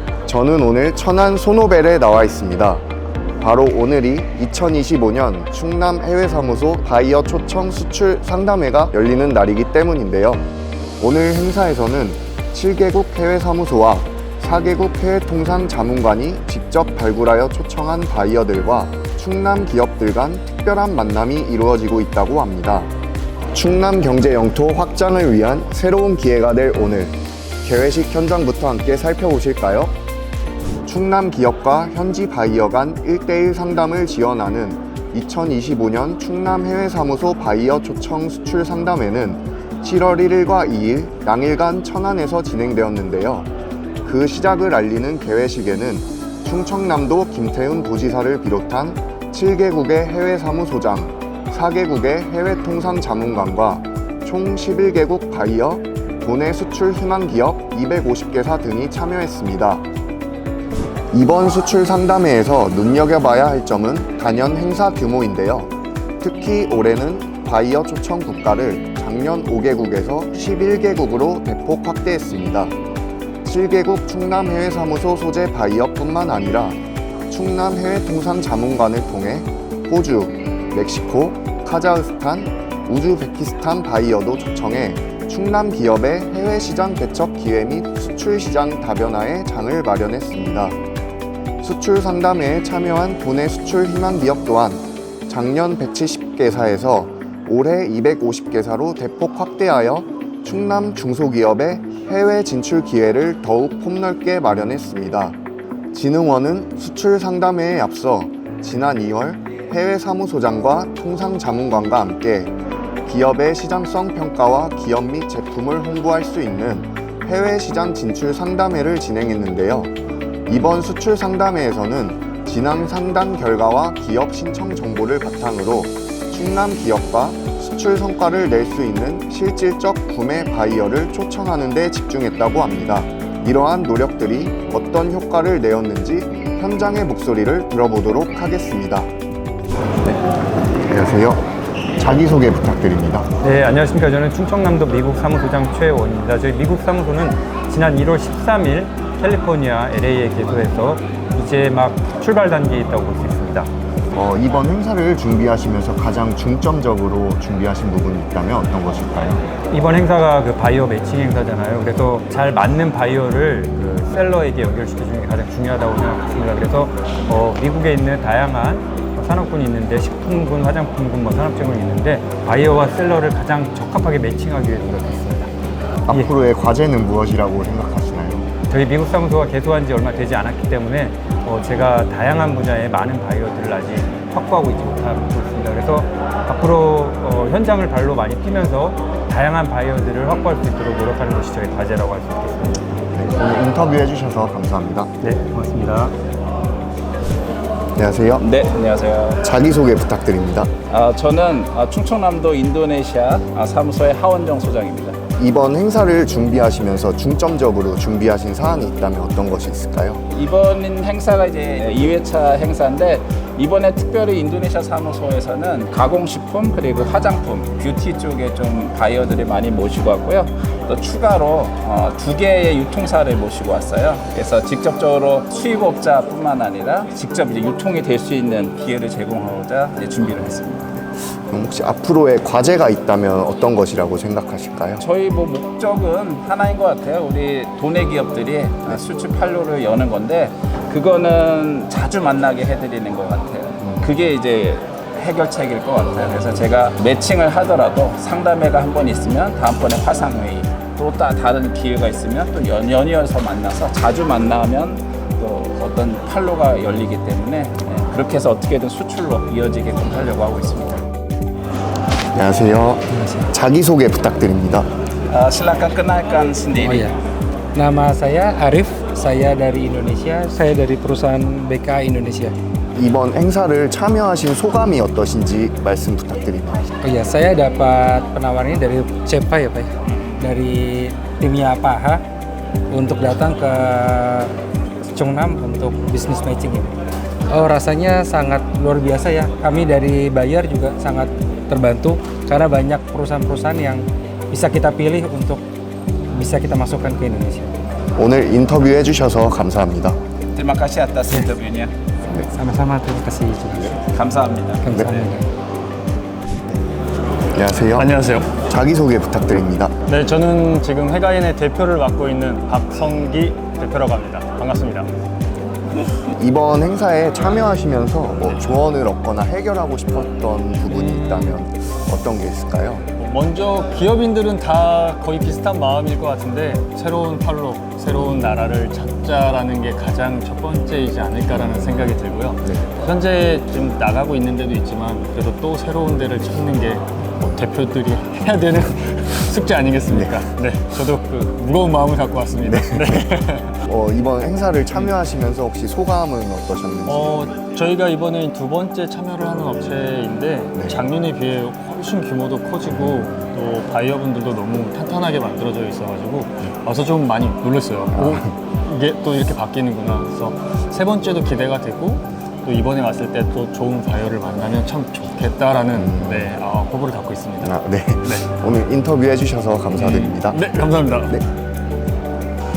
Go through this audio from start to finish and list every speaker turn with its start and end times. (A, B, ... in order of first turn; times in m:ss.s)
0:00.3-0:02.8 A
0:03.4-0:10.5 A
0:11.0-0:22.9 A
0:23.5-0:29.9 A
0:30.8-0:43.5 A
0:44.0-0:59.8 A
1:01.1-1:12.7 A
1:13.4-1:16.8 A
1:17.3-1:30.8 A
1:31.6-1:45.4 A
1:45.9-1:52.5 A
1:53.1-1:59.9 A
2:00.5-2:19.1 A
2:20.8-2:21.4 A
2:22.0-2:23.3 A
2:23.4-2:33.7 B
2:34.1-2:39.4 A
2:39.7-2:55.5 B
2:56.1-2:58.5 A
2:58.7-3:12.8 B
3:13.2-3:15.1 A
3:15.2-3:16.1 B
3:18.0-3:18.4 A
3:18.4-3:19.4 C
3:19.4-3:20.7 A
3:20.9-3:25.2 C
3:25.4-3:30.2 A
3:30.3-3:51.0 C
3:51.5-3:55.0 A
3:55.0-4:21.0 C
4:03.8-4:04.1 A
4:22.3-4:24.9 A
4:25.3-4:27.1 C
4:26.8-4:27.1 D
4:27.8-4:32.5 D
4:32.9-4:36.9 A
4:37.0-4:42.2 D
4:42.9-4:44.5 D
4:45.1-4:46.9 D
4:47.5-4:55.6 D
4:56.3-4:57.7 D
4:58.2-5:00.2 A
5:00.5-5:01.9 C
5:02.5-5:04.0 D
5:04.0-5:05.1 C
5:04.8-5:05.4 D
5:04.9-5:05.2 A
5:07.5-5:09.9 A
5:07.9-5:08.5 E
5:10.1-5:15.1 E
5:16.4-5:23.1 A
5:20.8-5:21.6 E
5:23.2-5:43.8 E
5:31.5-5:32.8 A
5:42.6-5:43.1 A
5:43.8-5:47.6 A
5:47.0-6:08.5 E
5:50.8-5:51.0 A
5:53.0-5:53.3 A
5:58.1-5:58.5 A
6:05.9-6:06.5 A
6:07.6-6:10.6 A
6:09.9-6:11.4 E